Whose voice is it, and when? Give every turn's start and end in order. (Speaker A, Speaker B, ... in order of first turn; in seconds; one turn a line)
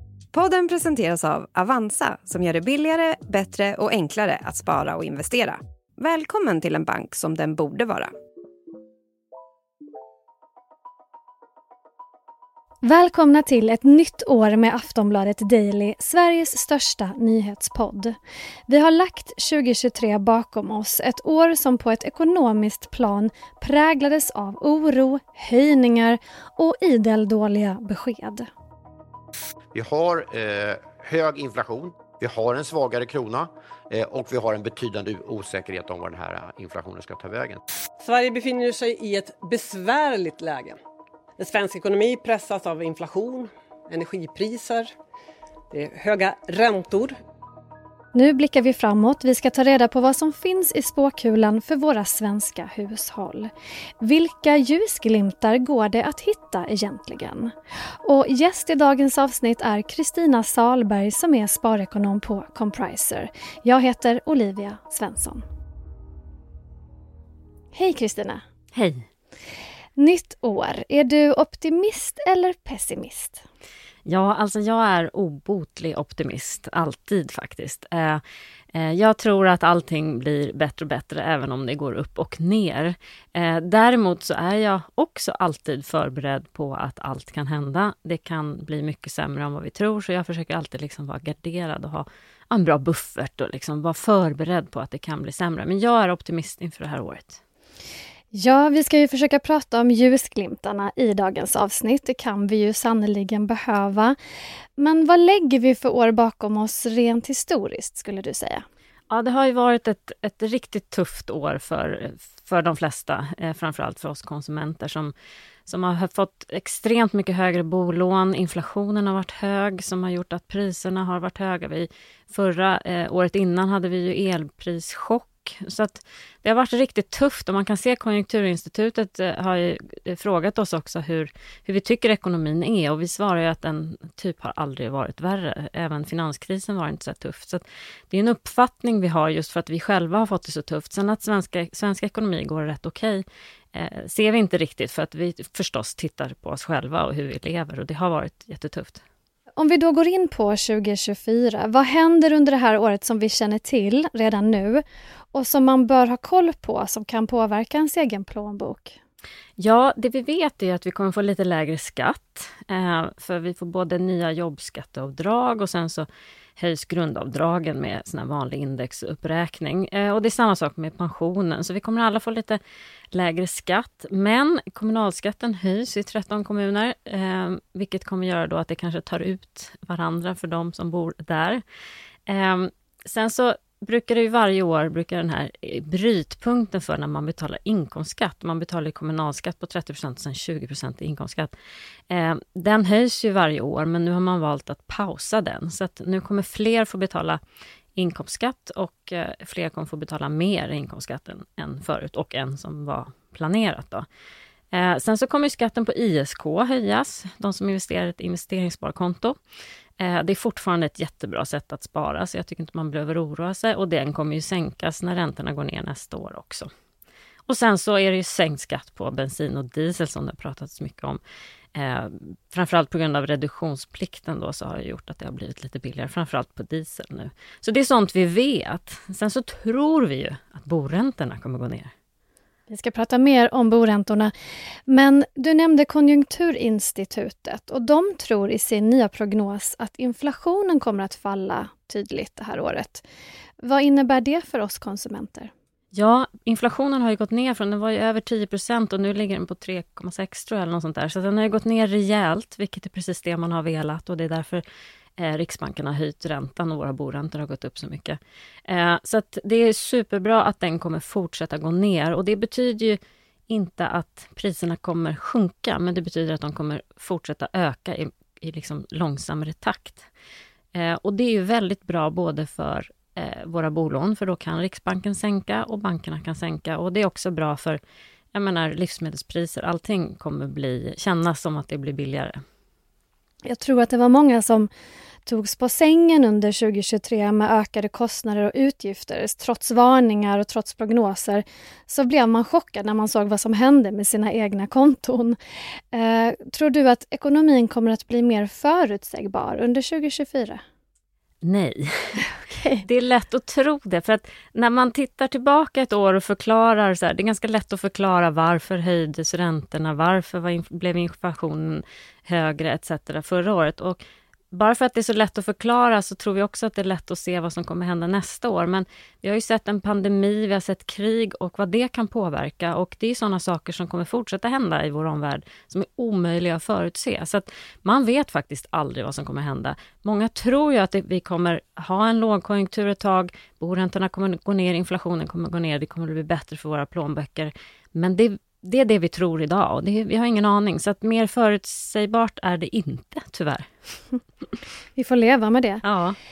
Speaker A: 0.3-8.1
Speaker B: 12.8-18.1
Speaker B: 18.7-28.5
Speaker C: 29.7-37.6
Speaker D: 38.0-40.8
Speaker D: 41.4-44.9
Speaker D: 45.7-47.2
Speaker B: 48.1-57.5
Speaker B: 58.0-65.4
Speaker B: 67.7-68.4
Speaker E: 68.8-69.1
Speaker B: 70.0-73.4
Speaker E: 74.1-78.2
Speaker E: 78.7-97.4
Speaker B: 98.3-104.2
Speaker B: 104.8-108.7
Speaker E: 109.1-115.1
Speaker E: 115.7-149.0
Speaker B: 149.6-154.8
Speaker B: 155.3-159.0
Speaker E: 159.6-172.6
Speaker E: 173.1-181.6
Speaker E: 182.3-191.6
Speaker E: 192.1-197.4
Speaker E: 198.0-204.1
Speaker E: 204.7-209.4
Speaker E: 210.0-216.7
Speaker E: 217.5-221.2
Speaker E: 221.8-231.9
Speaker B: 232.7-234.3
Speaker B: 234.9-243.1
Speaker B: 243.6-245.5
Speaker E: 245.9-254.6
Speaker E: 255.2-270.1
Speaker E: 270.7-277.8
Speaker E: 278.3-282.4
Speaker B: 283.5-284.7
Speaker B: 285.3-295.4
Speaker B: 295.9-300.6
Speaker E: 301.4-302.3
Speaker B: 302.2-302.8
Speaker E: 302.8-314.0
Speaker E: 314.5-343.7
Speaker B: 345.0-345.8
Speaker E: 345.8-346.2